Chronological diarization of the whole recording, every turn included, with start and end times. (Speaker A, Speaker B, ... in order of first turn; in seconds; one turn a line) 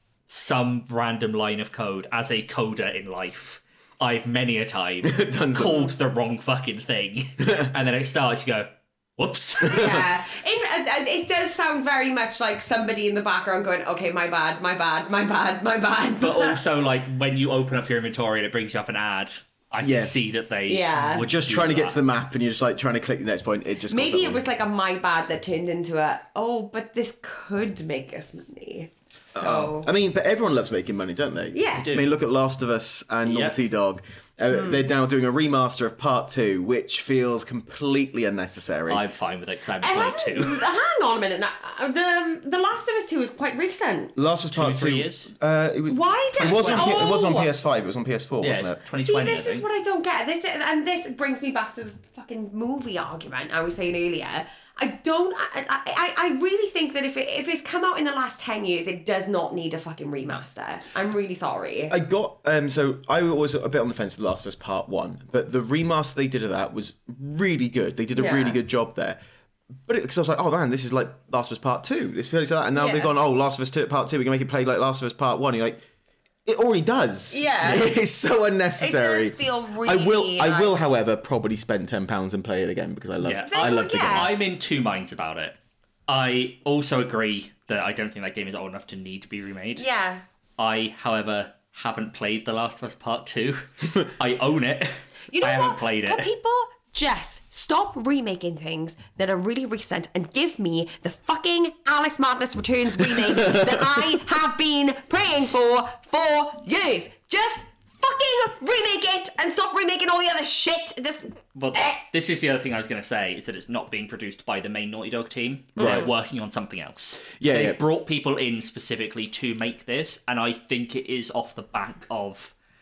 Speaker A: 0.3-10.0
Speaker B: 5.0-5.8
Speaker C: 5.7-5.9
Speaker B: 7.4-7.7
Speaker C: 9.6-16.6
Speaker B: 9.8-10.1
Speaker A: 16.2-22.0
Speaker B: 19.8-20.1
Speaker C: 20.7-21.3
Speaker B: 21.2-24.4
Speaker C: 23.9-29.9
Speaker B: 29.3-39.0
Speaker C: 31.5-31.9
Speaker A: 31.7-32.1
Speaker A: 33.2-33.6
Speaker C: 34.5-34.8
Speaker A: 38.9-40.6
Speaker C: 39.8-44.1
Speaker B: 44.1-48.8
Speaker A: 44.5-45.3
Speaker C: 45.9-47.5
Speaker A: 46.4-47.1
Speaker A: 48.4-49.6
Speaker C: 49.0-62.0
Speaker B: 61.9-69.2
Speaker C: 68.1-68.6
Speaker B: 69.8-75.8
Speaker C: 72.8-73.1
Speaker B: 76.4-84.3
Speaker C: 77.3-77.9
Speaker C: 78.8-80.8
Speaker A: 83.2-89.8
Speaker C: 83.5-84.3
Speaker C: 89.8-90.2
Speaker A: 90.6-96.3
Speaker C: 95.3-111.9
Speaker B: 103.4-103.8
Speaker A: 111.5-122.5
Speaker C: 115.8-116.1
Speaker B: 115.8-116.1
Speaker B: 117.4-117.8